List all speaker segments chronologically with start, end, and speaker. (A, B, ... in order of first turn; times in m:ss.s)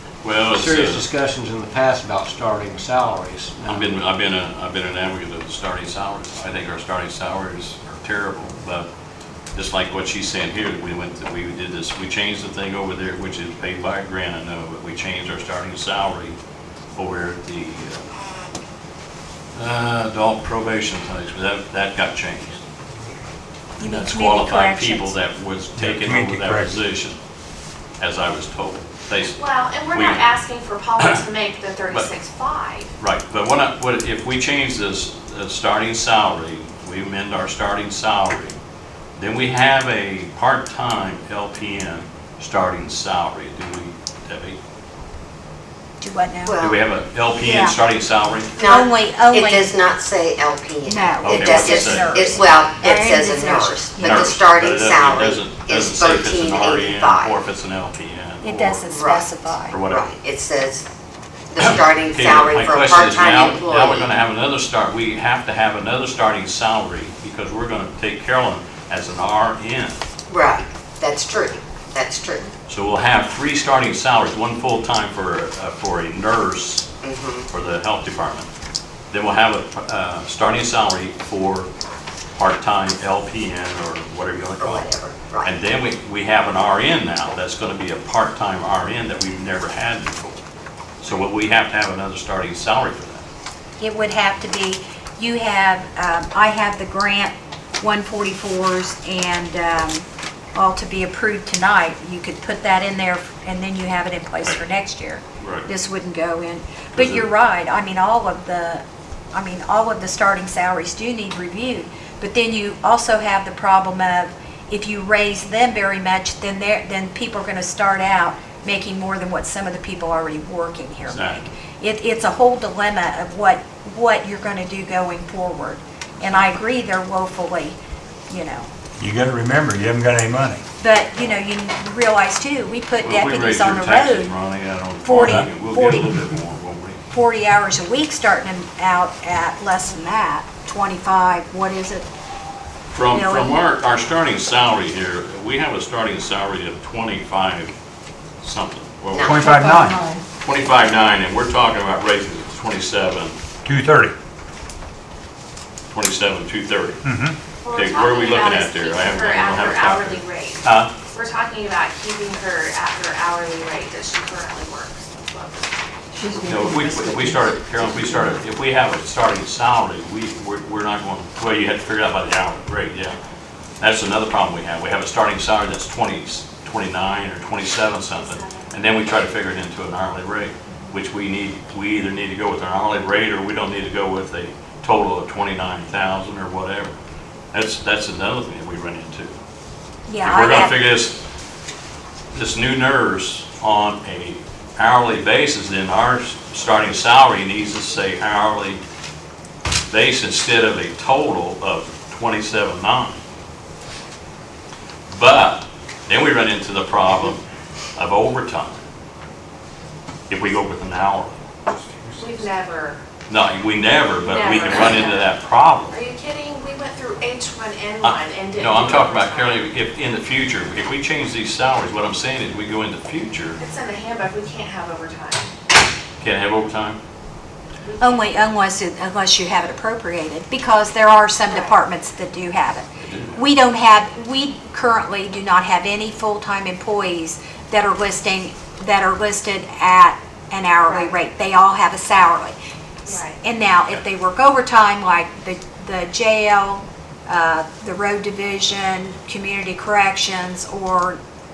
0:00.2-0:01.1 A
0:00.4-0:03.9 B
0:03.7-0:08.9 A
0:09.5-0:16.4 A
0:17.0-0:18.1 A
0:19.5-0:22.6 A
0:23.8-0:25.2 C
0:23.8-0:27.2 A
0:25.8-0:26.8 D
0:28.0-0:30.4 A
0:29.3-0:32.9 E
0:33.0-0:38.6 A
0:39.2-0:44.6 A
0:46.0-0:46.6 C
0:46.4-0:46.8 F
0:46.6-0:48.5 A
0:47.4-0:47.7 C
0:48.6-0:57.4 F
0:48.6-0:49.8 C
0:50.8-0:53.8 C
0:51.2-0:52.2 A
0:54.0-0:58.8 A
0:58.4-0:59.8 C
0:58.9-0:59.3 F
0:59.7-1:00.1 A
0:59.9-1:00.8 F
1:01.5-1:04.1 F
1:01.6-1:10.0 A
1:10.3-1:12.5 F
1:12.7-1:16.9 A
1:17.0-1:17.5 F
1:17.5-1:18.5 A
1:19.1-1:21.7 A
1:22.3-1:24.9 A
1:24.6-1:25.5 F
1:25.4-1:30.4 A
1:31.0-1:33.2 A
1:33.8-2:07.8 C
1:45.4-1:45.7 A
1:46.9-1:47.3 A
2:01.1-2:01.5 A
2:08.3-2:08.7 C
2:09.0-2:10.6 D
2:10.8-2:14.3 C
2:13.0-2:17.0 A
2:15.0-2:16.1 C
2:15.2-2:15.5 D
2:17.1-2:22.1 C
2:22.9-2:27.8 A
2:23.1-2:23.6 C
2:28.4-2:29.8 A
2:29.1-2:29.4 F
2:29.2-2:30.0 D
2:30.4-2:33.3 A
2:33.6-2:34.1 D
2:35.9-2:37.0 A
2:37.0-2:37.4 D
2:37.6-2:45.7 E
2:37.7-2:40.9 A
2:46.4-2:53.2 A
2:53.8-3:06.9 A
3:07.5-3:09.3 A
3:10.1-3:10.8 C
3:10.2-3:11.2 A
3:12.3-3:18.8 A
3:19.9-3:23.2 A
3:25.1-3:27.4 A
3:28.0-3:28.8 A
3:30.3-3:31.4 A
3:32.2-3:33.0 E
3:33.3-3:36.0 A
3:34.3-3:35.2 E
3:35.9-3:39.7 E
3:38.0-3:43.6 A
3:43.6-3:45.5 E
3:46.2-3:47.0 A
3:47.8-3:48.4 E
3:48.0-4:02.6 C
3:51.5-3:51.8 E
3:53.0-3:53.4 A
4:00.8-4:01.2 E
4:03.1-4:03.4 E
4:03.1-4:11.2 C